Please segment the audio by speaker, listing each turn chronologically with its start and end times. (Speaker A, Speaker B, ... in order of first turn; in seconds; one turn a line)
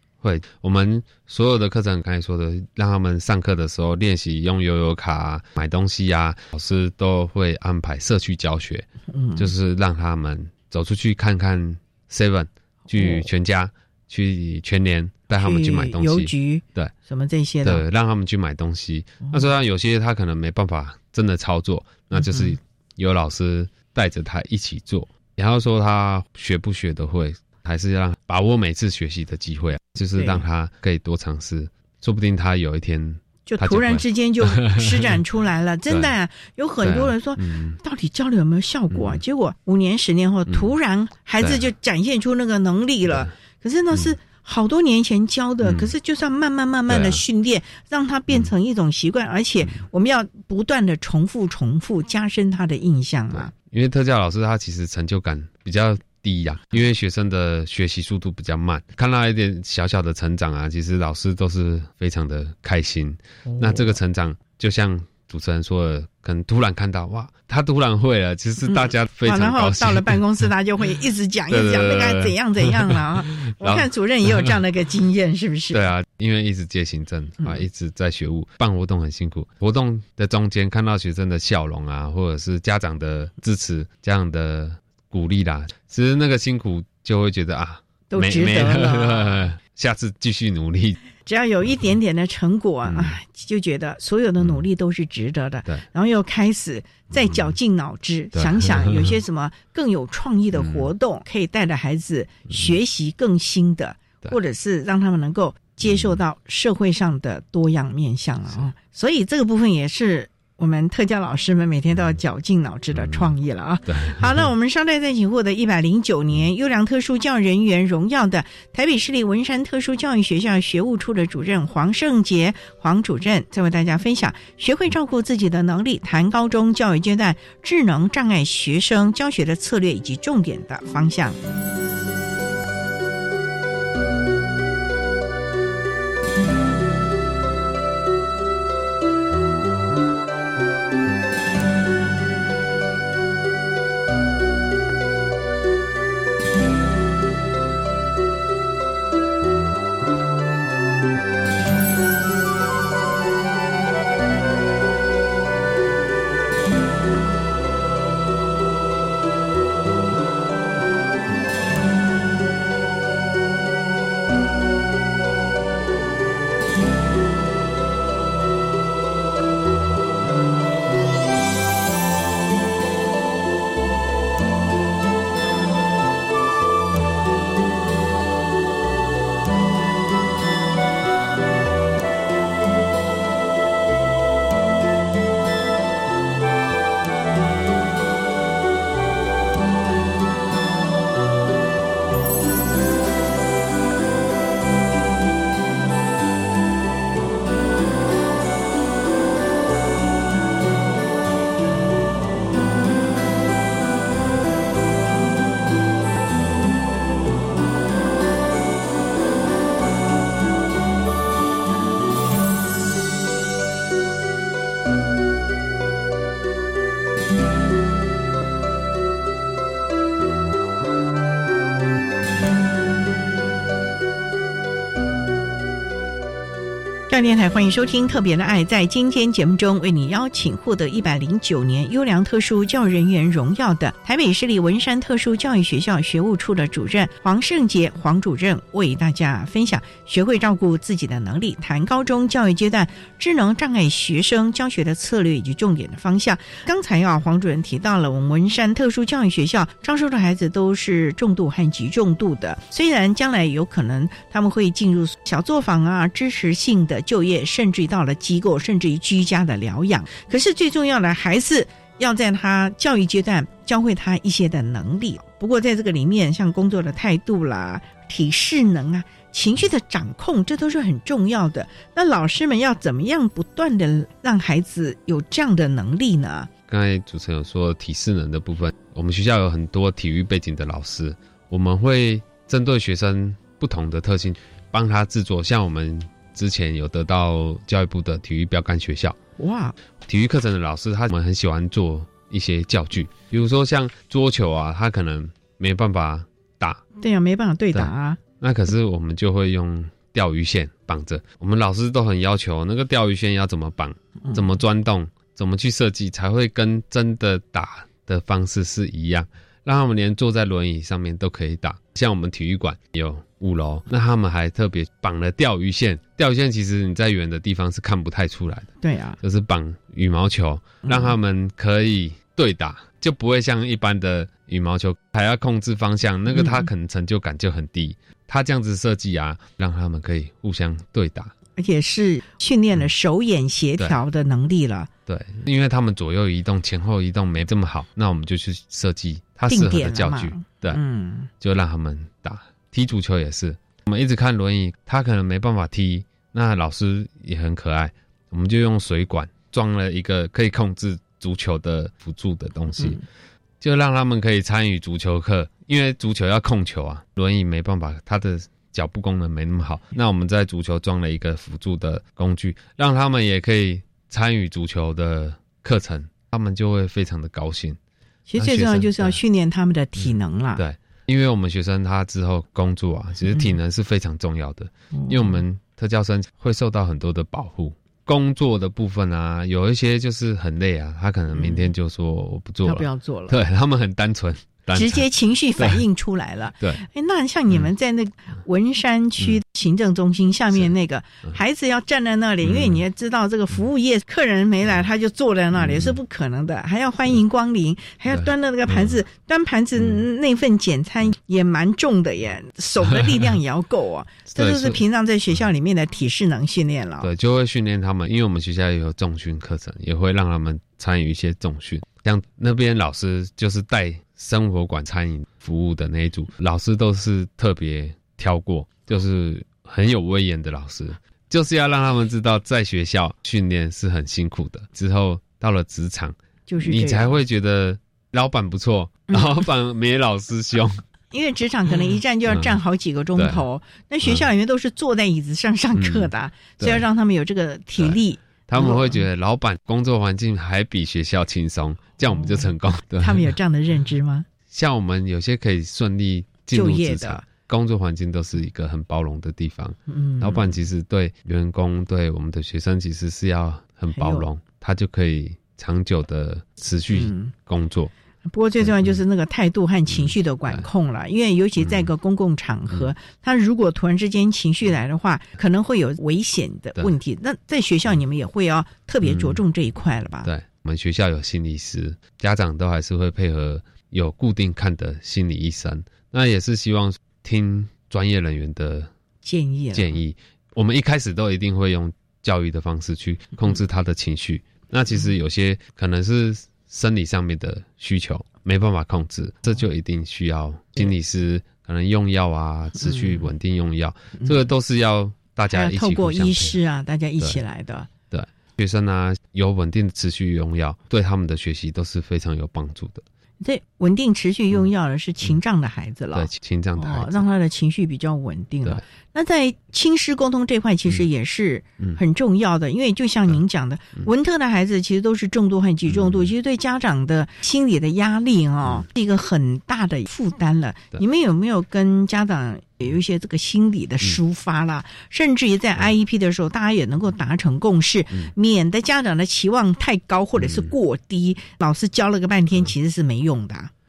Speaker A: 0.2-16.9
Speaker B: 9.1-9.5
Speaker B: 12.9-13.3
Speaker B: 15.3-17.8
Speaker A: 17.6-35.2
Speaker B: 22.1-22.6
Speaker B: 30.1-30.4
Speaker B: 33.5-53.5
Speaker A: 36.8-37.8
Speaker A: 38.9-39.2
Speaker A: 43.1-43.3
Speaker A: 45.6-45.9
Speaker A: 46.9-47.2
Speaker A: 53.3-70.2
Speaker B: 63.5-64.0
Speaker B: 68.6-75.8
Speaker A: 71.5-73.9
Speaker A: 75.7-91.0
Speaker B: 88.1-89.5
Speaker B: 91.2-131.4
Speaker A: 92.8-93.2
Speaker A: 97.2-97.5
Speaker A: 98.3-99.2
Speaker A: 100.5-100.9
Speaker A: 105.9-106.2
Speaker A: 112.9-113.4
Speaker A: 113.9-114.5
Speaker B: 227.1-276.5
Speaker A: 276.7-289.2
Speaker B: 289.4-289.8
Speaker A: 290.1-296.8
Speaker B: 297.0-298.2
Speaker A: 297.7-331.3
Speaker B: 318.8-319.2
Speaker B: 320.9-321.1
Speaker B: 326.3-326.7
Speaker B: 331.6-334.9
Speaker A: 335.1-340.8
Speaker B: 339.5-341.3
Speaker A: 341.4-353.0
Speaker A: 353.6-367.8
Speaker B: 368.3-370.6
Speaker A: 368.4-369.2
Speaker A: 370.0-385.8
Speaker B: 375.0-375.4
Speaker B: 381.3-381.7
Speaker B: 382.6-383.4
Speaker B: 384.7-407.1
Speaker A: 392.4-392.8
Speaker A: 395.6-396.0
Speaker A: 398.1-399.0
Speaker A: 404.3-404.8
Speaker A: 407.0-430.8
Speaker B: 426.5-427.2
Speaker B: 429.1-429.4
Speaker B: 431.1-439.0
Speaker A: 432.3-432.6
Speaker A: 433.2-433.4
Speaker A: 435.8-436.9
Speaker A: 437.8-443.4
Speaker B: 442.2-442.5
Speaker B: 443.0-444.3
Speaker A: 444.5-457.9
Speaker B: 446.5-447.2
Speaker B: 449.9-450.5
Speaker B: 453.9-454.3
Speaker B: 456.9-457.3
Speaker B: 458.2-470.3
Speaker A: 458.6-459.0
Speaker A: 459.9-460.7
Speaker A: 461.6-461.9
Speaker A: 469.0-469.4
Speaker A: 470.2-478.9
Speaker B: 479.2-479.9
Speaker A: 479.7-496.6
Speaker B: 492.8-493.3
Speaker B: 494.2-494.4
Speaker B: 495.5-497.9
Speaker A: 498.1-503.1
Speaker B: 503.4-533.7
Speaker A: 506.1-507.3
Speaker A: 515.9-516.3
Speaker A: 530.4-530.7